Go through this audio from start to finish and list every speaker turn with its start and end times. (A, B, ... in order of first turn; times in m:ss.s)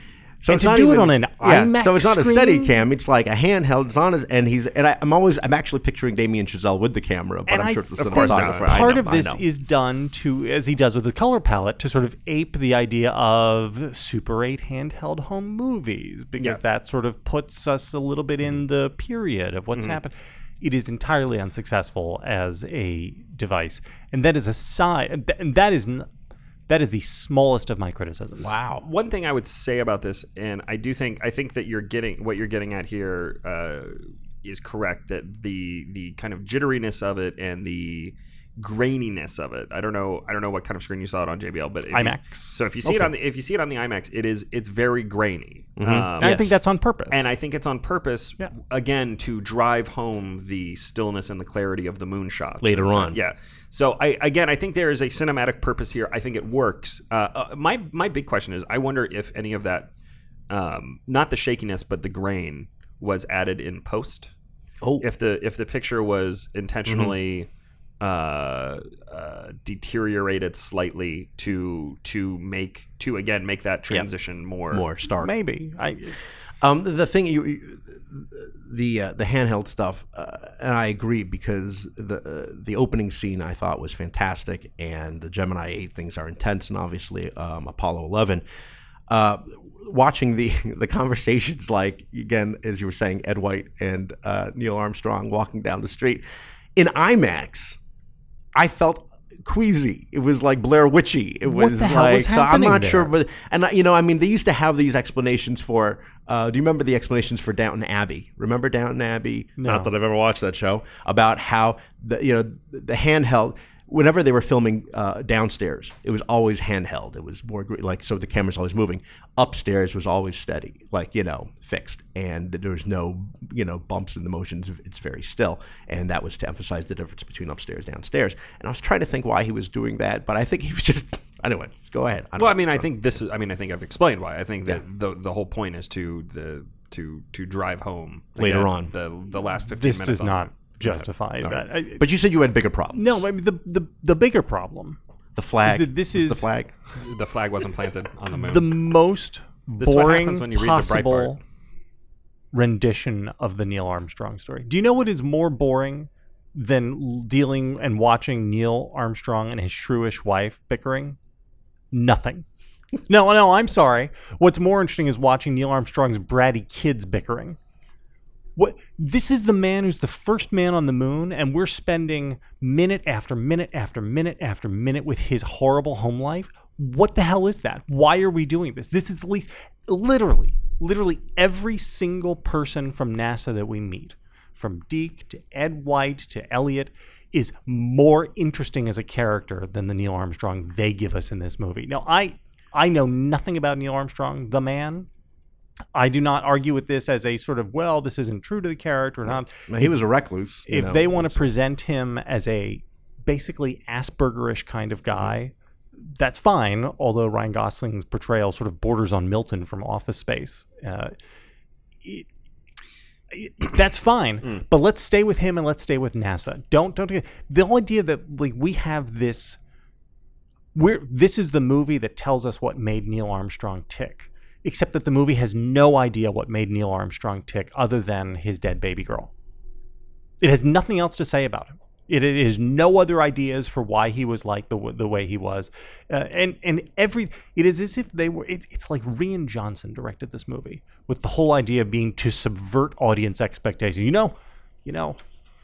0:00.4-0:09.4 A
0:00.5-0:02.8 B
0:07.5-0:26.1 B
0:08.0-0:09.0 C
0:26.7-0:28.5 B
0:28.4-0:28.8 A
0:28.8-0:46.5 C
0:41.9-0:42.5 B
0:42.8-0:43.1 A
0:45.8-0:46.5 A
0:46.2-0:47.3 B
0:47.1-0:59.9 C
0:52.6-0:53.2 A
1:00.5-1:04.3 C
1:05.0-1:07.5 C
1:06.8-1:07.1 A
1:08.0-1:14.9 C
1:14.7-1:15.3 A
1:15.2-1:16.2 B
1:16.6-1:28.4 A
1:29.1-1:36.2 A
1:36.8-1:37.8 A
1:38.5-2:12.9 A
1:41.4-1:43.1 B
1:49.6-1:49.9 B
2:12.4-2:20.6 C
2:18.4-2:18.9 A
2:19.6-2:22.0 B
2:20.8-2:23.2 A
2:22.9-2:25.0 B
2:25.3-2:26.7 A
2:25.6-2:26.5 B
2:27.0-2:28.7 C
2:28.3-2:31.4 B
2:29.8-2:31.4 C
2:32.5-2:41.2 B
2:41.9-2:42.4 B
2:43.0-2:47.6 B
2:48.6-3:15.1 B
3:15.9-3:19.9 B
3:19.3-3:21.4 A
3:20.7-3:31.1 B
3:33.3-3:39.6 B
3:40.7-3:49.3 B
3:50.4-4:05.2 B